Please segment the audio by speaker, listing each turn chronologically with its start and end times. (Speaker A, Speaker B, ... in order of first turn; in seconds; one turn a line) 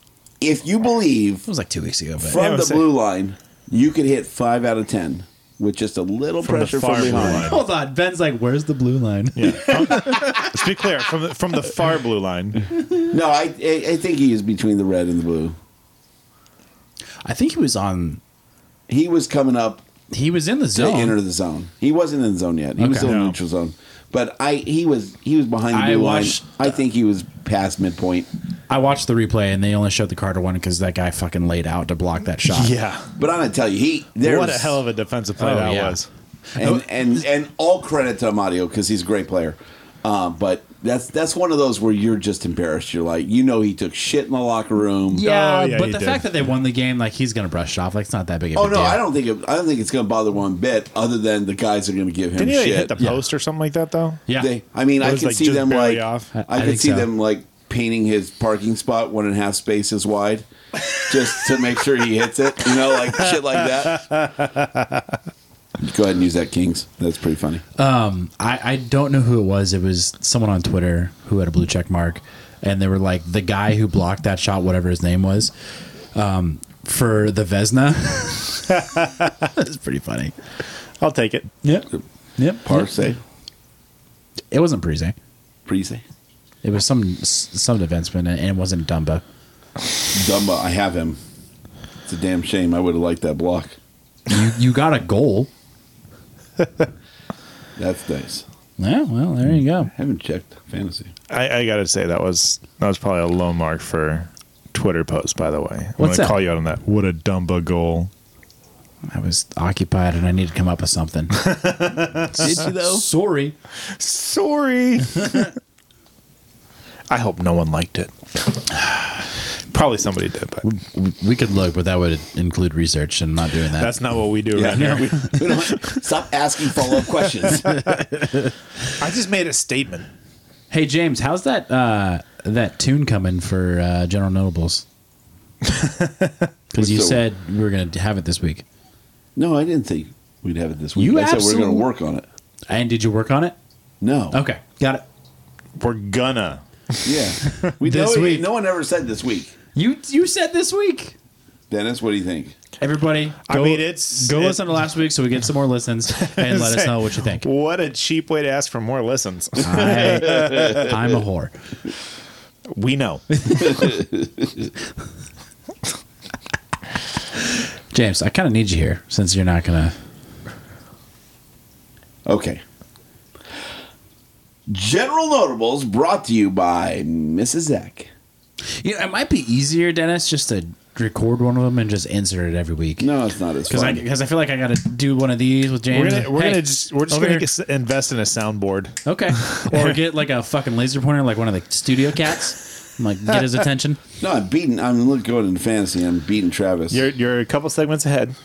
Speaker A: 0.4-1.4
Speaker B: 1.4-2.4
Speaker A: 2.2-7.5
Speaker C: 2.3-2.9
Speaker C: 6.4-7.6
Speaker B: 7.1-10.5
Speaker C: 9.3-12.7
Speaker A: 13.1-15.6
Speaker B: 17.2-18.2
Speaker A: 18.9-19.8
Speaker B: 20.1-21.2
Speaker A: 20.7-28.3
Speaker B: 22.8-23.1
Speaker C: 23.0-23.4
Speaker B: 25.7-26.7
Speaker B: 28.7-32.7
Speaker C: 32.5-33.1
Speaker A: 33.2-34.8
Speaker C: 34.2-36.1
Speaker B: 35.4-36.0
Speaker A: 36.6-45.2
Speaker B: 45.1-49.0
Speaker C: 45.2-46.3
Speaker A: 48.5-53.0
Speaker C: 52.4-54.2
Speaker A: 54.4-60.5
Speaker C: 55.0-56.3
Speaker B: 56.3-57.1
Speaker A: 61.0-64.1
Speaker C: 63.9-64.6
Speaker A: 65.8-67.6
Speaker B: 67.8-75.5
Speaker B: 76.1-80.3
Speaker C: 81.0-81.5
Speaker B: 81.6-82.9
Speaker A: 82.6-83.2
Speaker B: 84.5-85.1
Speaker A: 85.7-86.0
Speaker B: 86.6-89.2
Speaker A: 90.1-91.2
Speaker A: 92.0-93.8
Speaker B: 94.3-95.5
Speaker A: 97.8-98.4
Speaker B: 98.8-99.9
Speaker A: 99.9-101.1
Speaker C: 101.3-108.1
Speaker B: 106.0-106.4
Speaker B: 109.1-111.5
Speaker C: 111.4-112.5
Speaker B: 112.2-113.5
Speaker A: 112.4-113.0
Speaker C: 114.0-115.5
Speaker C: 117.1-118.6
Speaker C: 119.7-120.6
Speaker B: 120.6-123.9
Speaker C: 123.8-126.0
Speaker A: 124.5-127.7
Speaker B: 124.7-125.3
Speaker C: 128.9-130.1
Speaker B: 130.7-134.8
Speaker C: 135.7-136.3
Speaker B: 136.7-138.6
Speaker A: 136.8-137.2
Speaker A: 139.3-142.3
Speaker B: 140.9-141.9
Speaker B: 142.7-143.5
Speaker A: 144.0-144.4
Speaker B: 144.3-145.0
Speaker C: 145.8-147.6
Speaker A: 147.0-149.5
Speaker B: 147.6-148.5
Speaker B: 149.7-151.1
Speaker A: 151.7-152.5
Speaker B: 152.8-157.4
Speaker C: 153.4-154.9
Speaker C: 156.1-160.9
Speaker B: 159.6-161.5
Speaker C: 162.7-163.7
Speaker A: 163.7-164.5
Speaker B: 167.9-169.9
Speaker A: 172.2-172.6
Speaker A: 174.7-178.1
Speaker B: 178.8-183.1
Speaker A: 183.0-184.0
Speaker B: 183.7-187.5
Speaker C: 185.9-190.0
Speaker B: 189.0-194.0
Speaker A: 194.2-197.1
Speaker C: 196.9-198.3